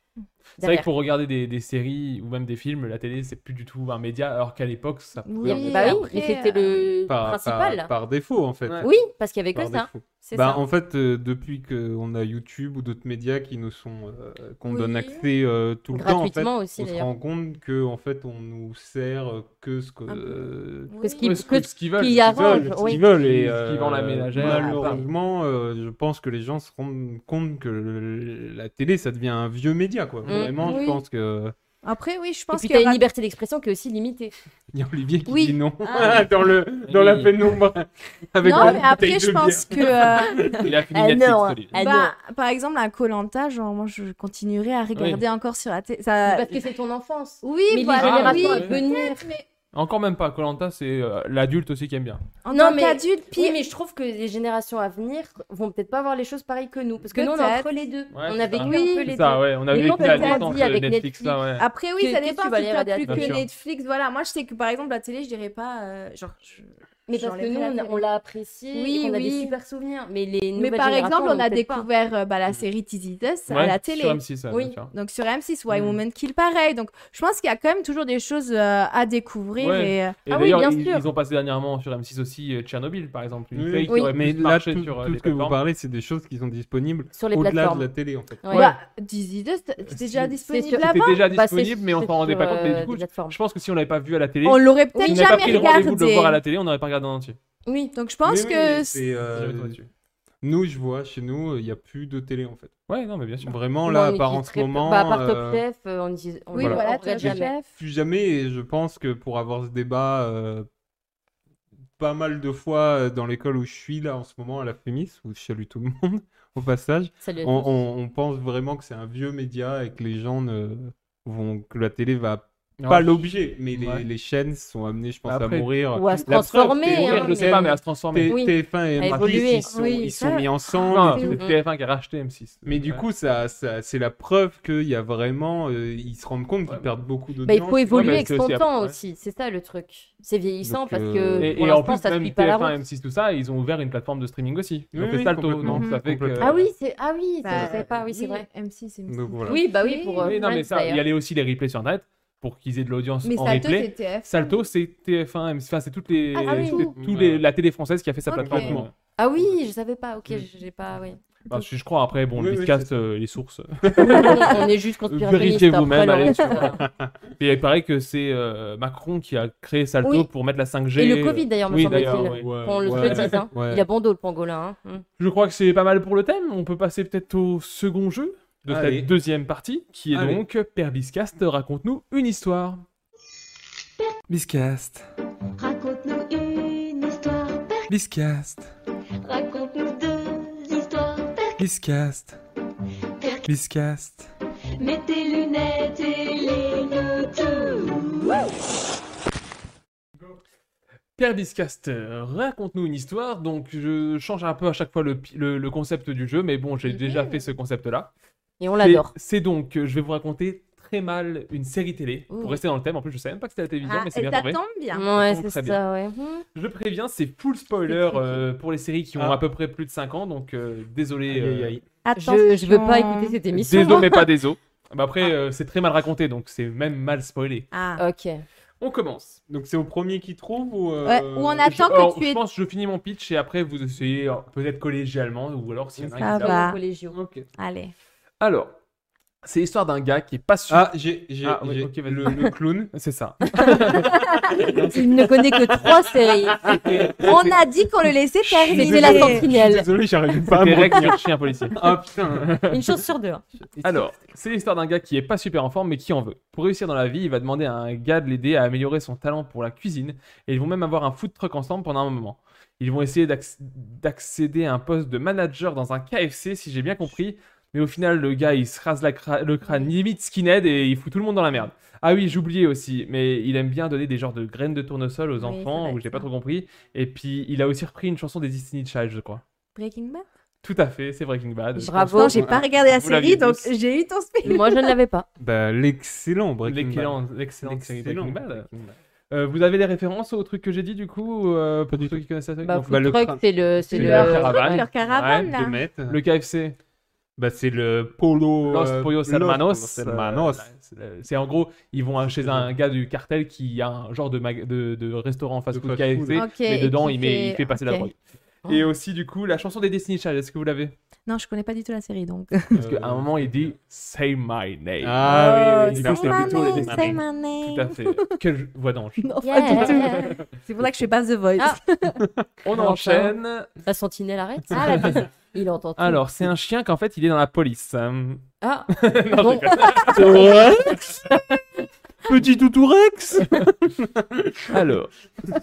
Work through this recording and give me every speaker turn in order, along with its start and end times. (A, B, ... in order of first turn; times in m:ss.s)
0:00.6-0:00.9 A
0:00.6-0:06.0 B
0:05.2-0:06.9 C
0:05.6-0:07.9 A
0:07.1-0:08.9 D
0:08.8-0:10.6 A
0:09.5-0:20.9 D
0:14.6-0:15.3 C
0:15.9-0:17.1 A
0:20.1-0:21.4 C
0:21.0-0:23.0 A
0:21.2-0:25.0 B
0:22.2-0:31.5 D
0:24.4-0:25.0 C
0:30.3-0:30.5 B
0:30.3-0:30.8 A
0:30.6-0:31.0 C
0:31.8-0:33.0 C
0:32.5-0:34.3 A
0:34.7-0:40.7 D
0:35.3-0:36.3 C
0:36.9-0:37.4 B
0:38.4-0:40.6 C
0:40.6-0:41.8 B
0:40.9-0:42.2 A
0:41.7-0:46.6 C
0:45.0-0:45.2 B
0:46.2-0:49.3 A
0:47.4-0:49.4 C
0:48.0-0:48.8 B
0:49.7-0:52.2 B
0:52.4-0:53.6 C
0:52.5-1:03.4 A
0:57.1-0:57.7 C
0:58.1-1:01.6 B
0:58.5-0:59.2 C
0:59.7-1:00.7 C
1:01.6-1:08.0 C
1:03.1-1:03.4 B
1:07.1-1:11.9 A
1:08.7-1:09.6 C
1:10.6-1:14.4 C
1:13.5-1:14.9 B
1:14.5-1:14.8 A
1:14.9-1:20.2 C
1:19.6-1:25.6 B
1:20.3-1:21.1 A
1:23.5-1:28.4 D
1:23.9-1:24.1 A
1:27.1-1:27.9 A
1:28.4-1:28.7 A
1:28.5-1:31.2 C
1:30.5-1:33.4 A
1:30.8-1:37.4 B
1:34.4-1:36.4 C
1:34.9-1:35.9 A
1:37.7-1:38.0 A
1:37.9-1:39.0 C
1:38.2-1:39.8 D
1:39.3-1:39.9 B
1:40.4-1:42.7 D
1:42.9-1:43.6 B
1:43.4-1:45.6 D
1:43.9-1:47.6 A
1:46.5-1:47.7 C
1:46.6-1:50.7 D
1:52.0-2:11.4 D
1:57.2-1:57.8 A
2:02.8-2:04.0 B
2:05.3-2:05.7 B
2:05.9-2:11.6 A
2:06.4-2:08.4 B
2:09.0-2:09.7 B
2:09.6-2:10.4 C
2:10.9-2:13.1 B
2:12.6-2:18.3 D
2:17.5-2:22.8 A
2:17.9-2:19.0 B
2:20.6-2:21.6 D
2:21.4-2:26.7 B
2:24.9-2:26.6 D
2:25.6-2:26.0 C
2:26.4-2:28.5 A
2:27.4-2:30.4 C
2:29.1-2:29.6 D
2:29.5-2:31.0 A
2:30.2-2:38.9 B
2:33.2-2:34.6 C
2:36.4-2:37.0 A
2:36.8-2:37.5 D
2:38.3-2:38.8 C
2:38.4-2:38.9 D
2:39.2-2:41.2 A
2:41.5-2:44.4 B
2:42.4-2:42.9 D
2:43.8-2:44.4 D
2:44.0-2:46.8 A
2:45.1-2:46.8 B
2:46.8-2:47.1 D
2:47.4-2:53.4 B
2:51.0-2:55.1 A
2:51.7-2:53.8 D
2:55.2-3:02.8 B
2:58.7-2:59.1 D
3:00.1-3:00.4 D
3:04.3-3:05.0 D
3:05.6-3:08.0 E
3:07.9-3:08.7 D
3:09.2-3:11.6 E
3:11.6-3:12.4 D
3:13.2-3:13.5 E
3:13.5-3:14.3 D
3:14.8-3:18.4 E
3:21.2-3:28.1 B
3:26.9-3:27.3 C
3:28.6-3:29.1 A
3:28.8-3:34.6 B
3:32.3-3:32.6 C
3:33.8-3:35.1 C
3:34.9-3:36.4 A
3:35.1-3:35.8 B
3:36.5-3:41.8 B
3:37.9-3:38.3 A
3:39.2-3:39.4 D
3:41.3-3:41.8 D
3:42.0-3:43.4 C
3:42.2-3:44.2 A
3:43.7-3:47.7 B
3:47.7-3:48.0 C
3:48.0-3:48.4 A
3:48.8-3:49.4 B
3:49.5-3:51.9 D
3:51.0-3:52.4 C
3:51.6-3:56.6 B
3:56.0-3:56.5 D
3:56.2-3:56.8 C
3:56.4-3:57.2 A
3:57.1-3:57.5 D
3:57.6-3:57.9 C
3:58.4-3:58.8 B
3:59.4-4:00.9 B
4:00.7-4:02.9 D
4:01.4-4:04.1 B
4:04.0-4:04.5 C
4:04.6-4:06.0 D
4:04.8-4:06.8 A
4:06.5-4:07.4 D
4:07.2-4:09.5 C
4:07.2-4:07.6 B
4:08.5-4:09.1 B
4:08.7-4:11.2 D
4:08.7-4:09.9 A
4:10.5-4:11.8 B
4:11.7-4:12.6 D
4:12.4-4:12.8 B
4:12.7-4:13.4 A
4:13.6-4:14.2 D
4:13.8-4:39.4 B
4:29.7-4:29.9 C
4:35.4-4:36.3 C
4:39.8-4:40.3 C
4:40.6-4:43.7 B
4:41.8-4:42.4 A
4:42.1-4:44.9 C
4:42.3-4:42.6 D
4:44.4-4:45.3 A
4:45.4-4:48.8 D
4:46.7-4:53.0 B
4:51.9-4:52.3 D
4:52.6-4:54.6 A
4:52.8-4:54.4 D
4:53.9-4:55.5 B
4:54.0-4:55.8 C
4:55.5-4:56.2 D
4:56.1-4:56.8 B
4:57.4-5:00.7 D
4:58.7-5:08.2 B
5:02.2-5:02.7 D
5:05.7-5:06.5 D
5:06.3-5:08.1 C
5:08.7-5:10.9 B
5:11.3-5:12.8 C
5:12.7-5:13.7 D
5:12.8-5:20.0 B
5:15.0-5:17.2 D
5:15.2-5:18.3 C
5:19.2-5:22.2 C
5:19.4-5:20.4 A
5:22.6-5:23.7 B
5:22.8-5:23.3 A
5:23.8-5:26.2 A
5:24.7-5:25.2 C
5:24.8-5:25.2 B
5:26.0-5:30.5 B
5:28.6-5:31.6 A
5:30.1-5:31.1 D
5:32.3-5:34.7 D
5:34.7-5:35.1 B